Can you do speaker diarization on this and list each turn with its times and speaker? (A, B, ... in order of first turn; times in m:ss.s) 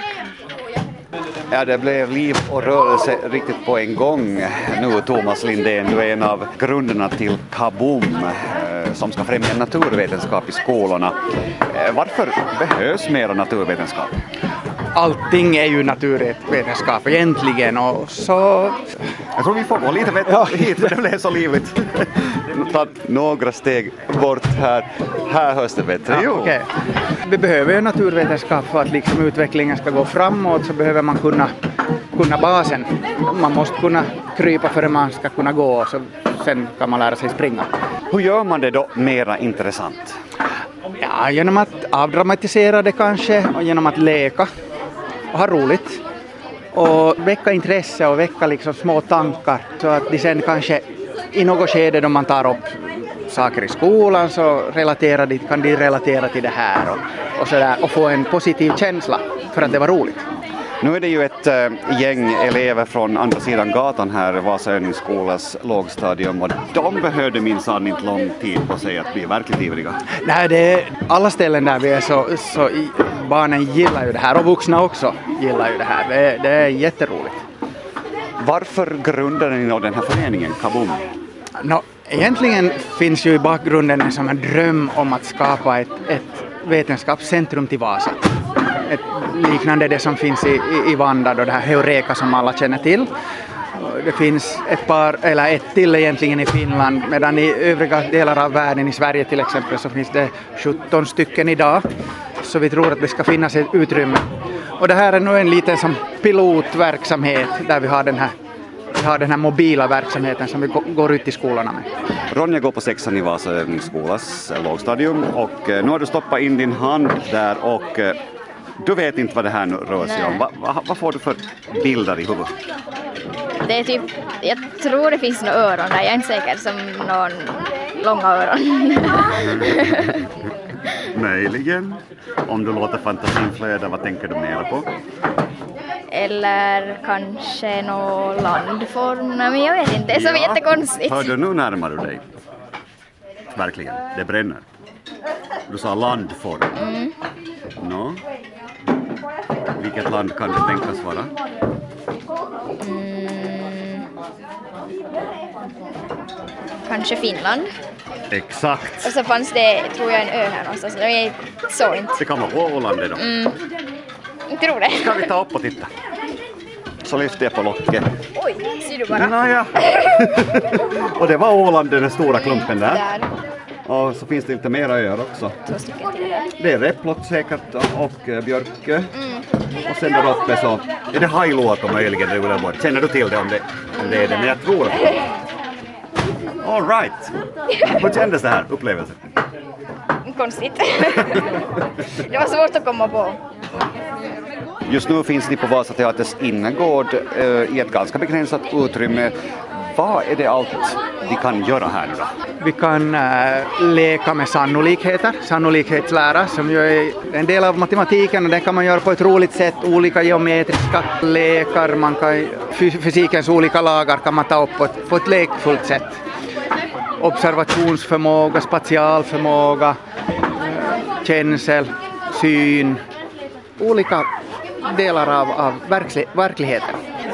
0:01.5-0:14.1 A
0:14.9-0:18.9 B
0:19.4-0:26.5 A
0:20.2-0:20.9 B
0:26.1-0:26.7 B
0:27.2-0:31.5 B
0:32.1-0:37.7 B
0:38.1-0:40.2 A
0:41.0-0:44.5 B
0:45.3-0:46.0 B
0:46.7-1:00.2 B
1:00.8-1:10.0 A
1:10.2-1:17.4 B
1:18.4-1:21.1 A
1:21.6-1:33.1 B
1:33.8-1:41.8 B
1:42.4-1:44.3 B
1:44.8-1:48.3 B
1:48.9-1:51.9 B
1:52.3-1:58.2 A
1:58.8-2:02.6 A
2:00.0-2:00.4 C
2:03.6-2:09.3 C
2:09.4-2:10.1 A
2:11.1-2:14.9 A
2:16.1-2:21.4 C
2:20.1-2:22.2 A
2:23.5-2:24.7 A
2:25.7-2:26.7 A
2:26.7-2:27.1 C
2:27.8-2:28.2 A
2:29.8-2:31.3 A
2:32.8-2:34.0 C
2:36.8-2:37.7 C
2:38.3-2:39.1 A
2:39.0-2:42.2 C
2:42.2-2:43.2 A
2:43.2-2:43.6 C
2:44.5-2:45.3 C
2:44.9-2:45.9 A
2:47.0-2:48.1 A
2:48.4-2:49.4 C
2:49.1-2:53.0 A
2:52.9-2:53.2 C
2:53.8-2:55.6 A
2:55.7-2:56.5 C
2:56.6-2:59.1 A
2:59.8-3:05.2 A
3:06.6-3:07.3 A
3:07.8-3:09.2 A
3:10.2-3:11.4 C
3:12.2-3:13.4 C
3:14.8-3:22.3 A
3:22.6-3:36.2 B
3:37.2-3:40.0 B
3:40.6-3:43.0 B
3:43.8-3:44.3 B
3:44.8-3:47.0 B